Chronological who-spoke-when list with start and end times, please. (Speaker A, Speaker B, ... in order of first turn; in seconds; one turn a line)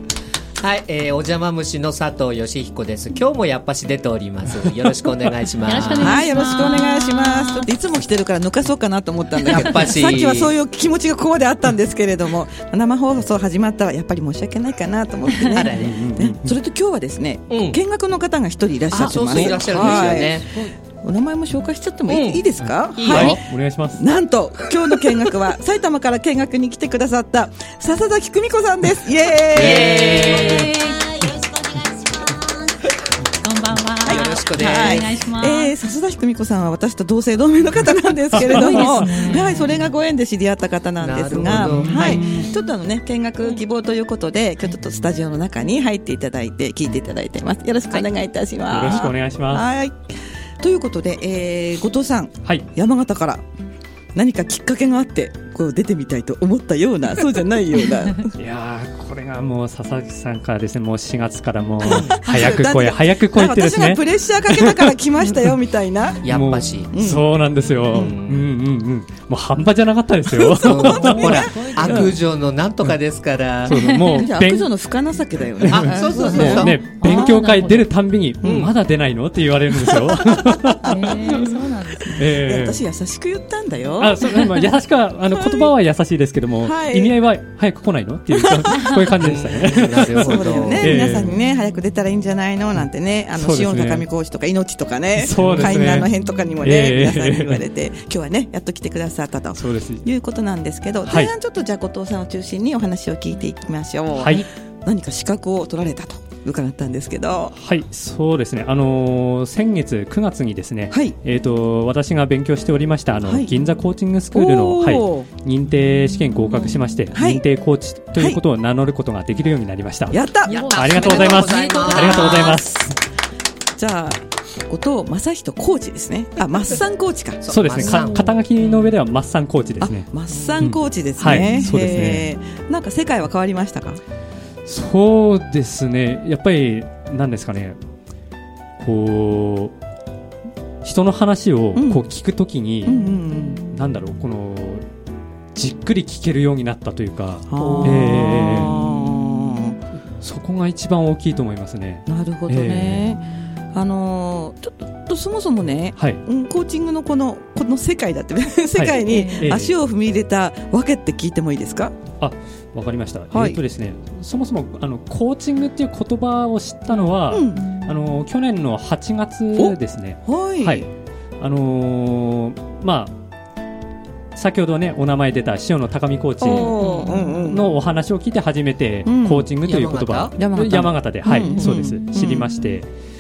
Speaker A: 0.6-6.3
Speaker B: 5.7-7.7
Speaker C: 6.0-23.4
Speaker A: 9.4-10.5
Speaker A: 15.4-16.0
Speaker D: 15.7-16.6
Speaker A: 17.5-17.8
Speaker A: 18.9-20.5
Speaker D: 19.0-20.1
Speaker A: 22.1-22.4
Speaker D: 22.6-24.1
Speaker B: 23.0-23.4
Speaker A: 23.0-23.3
Speaker C: 24.0-30.4
Speaker A: 29.5-30.7
Speaker D: 29.9-30.7
Speaker B: 30.2-31.3
Speaker B: 33.4-35.7
Speaker A: 34.0-35.1
Speaker C: 34.0-53.4
Speaker D: 38.3-39.4
Speaker B: 38.4-39.8
Speaker A: 41.0-42.3
Speaker D: 41.5-42.5
Speaker D: 48.7-49.6
Speaker C: 54.1-58.3
Speaker D: 58.4-65.4
Speaker C: 61.8-66.3
Speaker A: 61.8-62.1
Speaker A: 66.2-66.9
Speaker D: 66.3-72.1
Speaker C: 66.9-67.3
Speaker A: 67.9-68.5
Speaker C: 67.9-68.2
Speaker C: 70.3-72.1
Speaker A: 70.5-73.8
Speaker B: 70.8-72.2
Speaker D: 73.7-74.7
Speaker B: 73.7-74.3
Speaker C: 74.1-77.4
Speaker D: 75.6-81.5
Speaker A: 75.7-76.8
Speaker B: 76.1-77.9
Speaker C: 78.4-78.7
Speaker A: 78.4-78.7
Speaker C: 79.8-80.7
Speaker B: 80.8-82.2
Speaker D: 82.1-82.8
Speaker C: 82.2-84.6
Speaker D: 84.0-91.3
Speaker C: 85.3-85.7
Speaker C: 86.6-87.2
Speaker C: 88.3-89.0
Speaker B: 88.7-89.1
Speaker A: 89.2-91.0
Speaker C: 89.8-107.5
Speaker D: 93.4-94.0
Speaker D: 95.2-96.1
Speaker A: 95.4-95.7
Speaker D: 96.6-97.6
Speaker D: 99.6-100.0
Speaker D: 101.1-101.3
Speaker D: 104.2-104.5
Speaker D: 107.5-123.0
Speaker C: 110.9-111.2
Speaker C: 113.2-113.5
Speaker C: 114.3-115.3
Speaker C: 117.1-117.4
Speaker C: 118.2-118.4
Speaker C: 120.1-121.3
Speaker A: 120.5-122.7
Speaker B: 120.5-122.6
Speaker C: 123.8-128.1
Speaker A: 127.4-128.9
Speaker D: 127.5-130.1
Speaker C: 129.8-134.0
Speaker A: 130.3-130.7
Speaker D: 130.6-132.3
Speaker D: 134.7-137.8
Speaker D: 138.8-139.7
Speaker D: 140.8-143.1
Speaker C: 141.8-142.1
Speaker C: 142.8-143.8
Speaker D: 143.6-144.8
Speaker D: 145.5-149.5
Speaker C: 147.5-149.8
Speaker B: 147.6-148.1
Speaker D: 150.2-153.2
Speaker C: 152.1-153.2
Speaker C: 153.7-161.9
Speaker D: 158.8-159.7
Speaker B: 158.9-159.5
Speaker D: 162.2-170.9
Speaker C: 163.3-163.6
Speaker C: 167.3-167.7
Speaker B: 167.6-167.9
Speaker C: 169.6-170.9
Speaker D: 171.4-173.2
Speaker D: 174.3-182.9
Speaker C: 176.4-177.7
Speaker B: 176.5-177.5
Speaker C: 179.1-179.5
Speaker A: 179.6-180.4
Speaker C: 180.4-182.6
Speaker B: 181.3-181.6